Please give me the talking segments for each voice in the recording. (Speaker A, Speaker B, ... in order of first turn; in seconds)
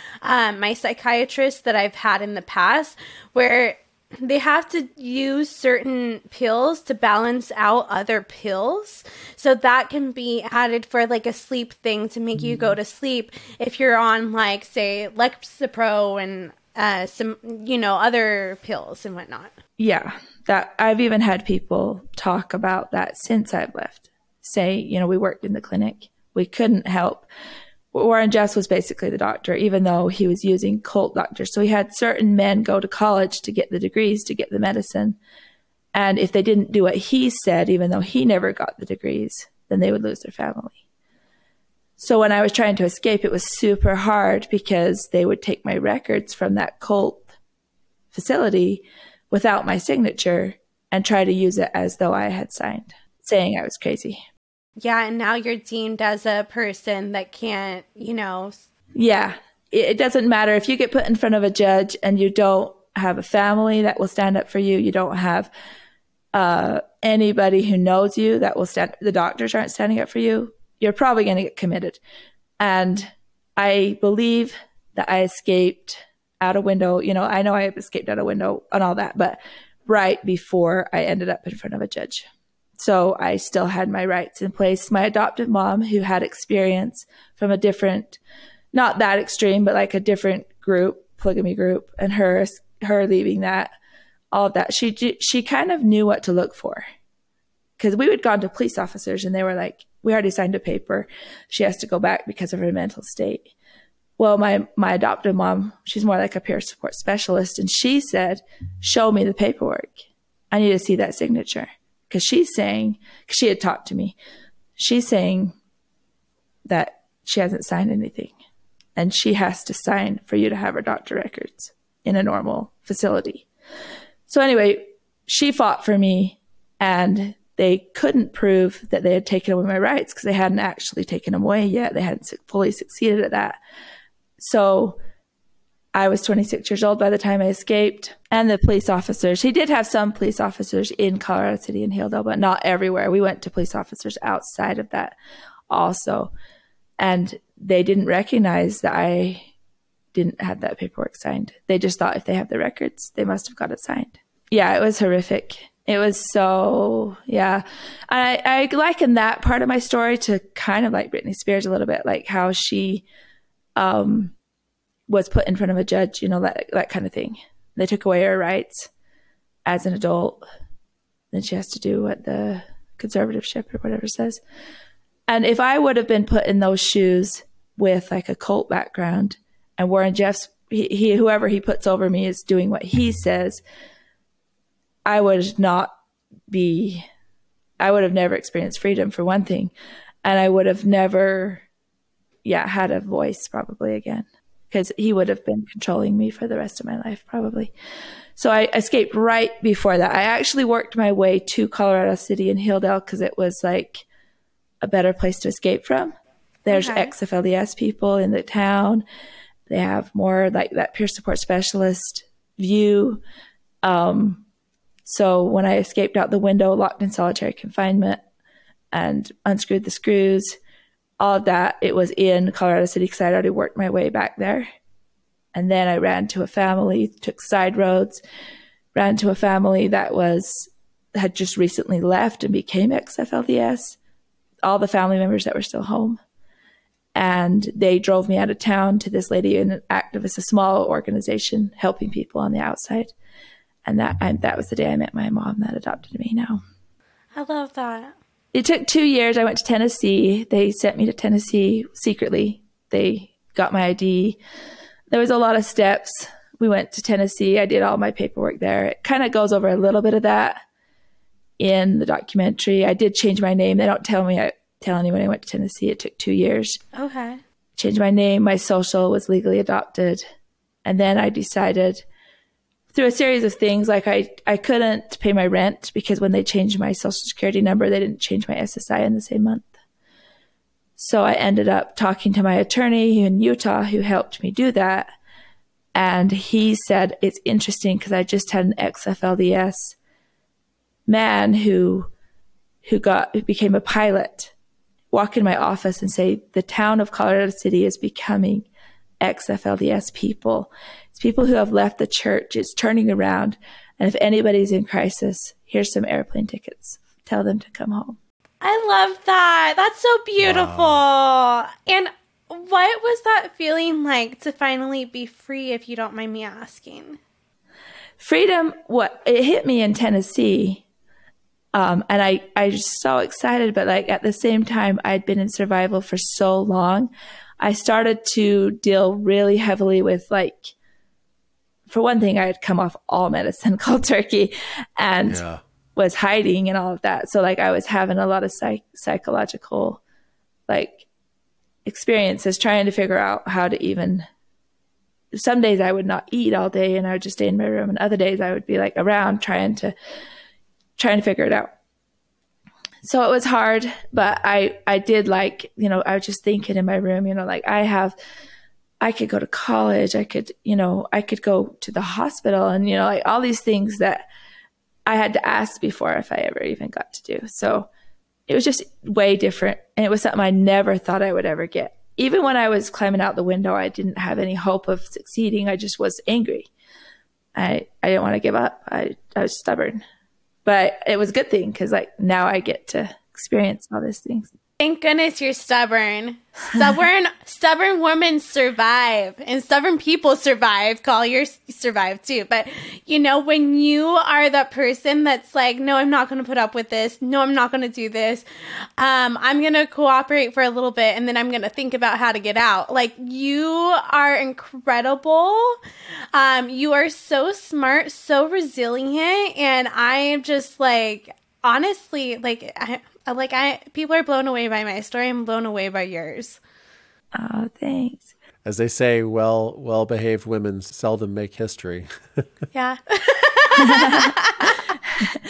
Speaker A: 0.2-19.5, 54.8-58.6, 206.7-207.1, 247.3-248.1, 266.9-267.4, 308.6-317.2, 384.8-398.4, 399.0-405.8, 406.3-416.6, 422.7-424.8
Speaker B: 19.8-27.2, 27.9-35.2, 35.9-40.8, 42.0-47.3, 48.1-54.2, 58.9-65.5, 66.3-72.0, 72.6-88.2, 88.7-93.7, 94.3-96.8, 97.8-103.5, 104.2-114.1, 114.8-115.5, 116.7-118.3, 119.0-123.5, 124.3-133.6, 134.4-135.0, 135.9-145.2, 145.7-146.3, 147.0-149.5, 150.1-163.1, 163.8-164.3, 165.1-168.9, 169.7-170.4, 171.3-174.4, 175.3-183.6, 185.1-185.9, 186.5-187.1, 187.8-189.7, 190.2-191.6, 192.4-197.7, 198.3-204.0, 204.8-209.0, 209.7-213.2, 213.8-214.4, 215.0-218.2, 218.9-220.6, 221.2-224.7, 225.5-228.2, 228.9-234.0, 234.6-236.2, 237.1-243.1, 243.8-246.6, 248.5-254.4, 255.1-260.6, 261.6-266.8, 267.8-270.2, 270.8-272.0, 272.9-279.7, 281.0-285.1, 285.9-289.9, 291.1-292.1, 292.8-294.5, 295.1-298.7, 299.2-308.2, 318.2-320.8, 321.7-330.7, 331.9-335.4, 335.9-340.0, 340.7-341.1, 341.8-344.3, 345.3-349.9, 351.0-351.7, 353.0-358.1, 359.0-364.2, 365.1-367.9, 368.5-376.7, 377.5-380.0, 380.6-384.5, 417.3-418.3
Speaker C: 310.4-311.0, 335.2-335.6, 418.6-422.4